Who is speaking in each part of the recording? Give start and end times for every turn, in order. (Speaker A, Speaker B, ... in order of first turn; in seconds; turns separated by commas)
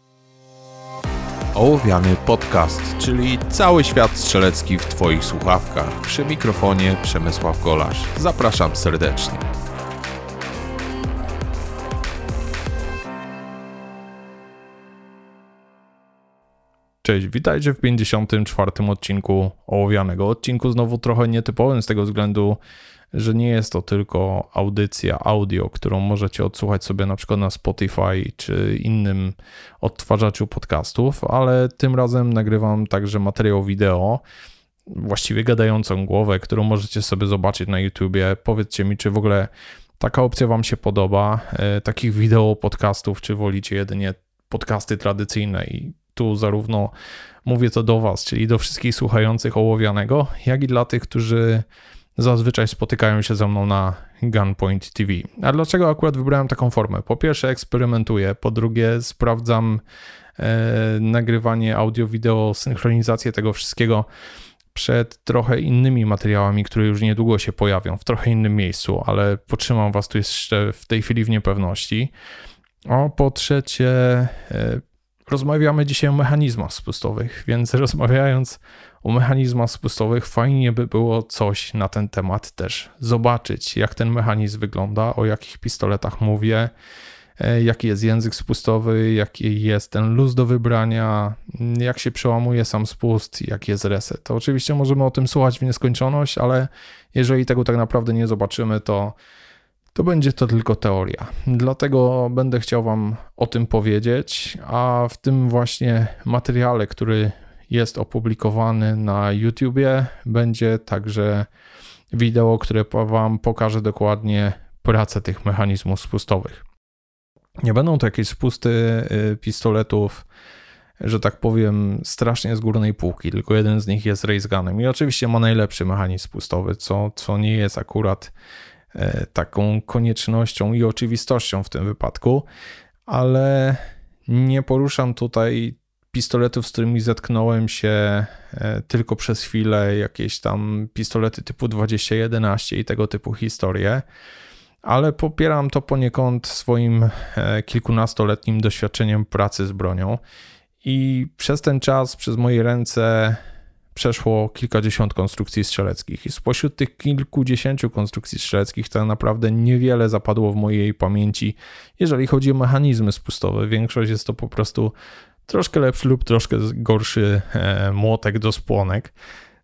Speaker A: 1.5-9.5, Speaker A: 17.0-22.6, Speaker A: 23.1-34.2, Speaker A: 34.9-46.9, Speaker A: 47.4-59.8, Speaker A: 60.4-64.1, Speaker A: 64.7-72.1, Speaker A: 72.9-86.7, Speaker A: 87.4-99.2, Speaker A: 99.9-111.5, Speaker A: 112.1-116.6, Speaker A: 117.6-120.2, Speaker A: 121.0-128.3, Speaker A: 128.9-132.5, Speaker A: 133.1-144.1, Speaker A: 144.8-150.2, Speaker A: 150.8-153.4, Speaker A: 153.9-164.9, Speaker A: 165.5-169.1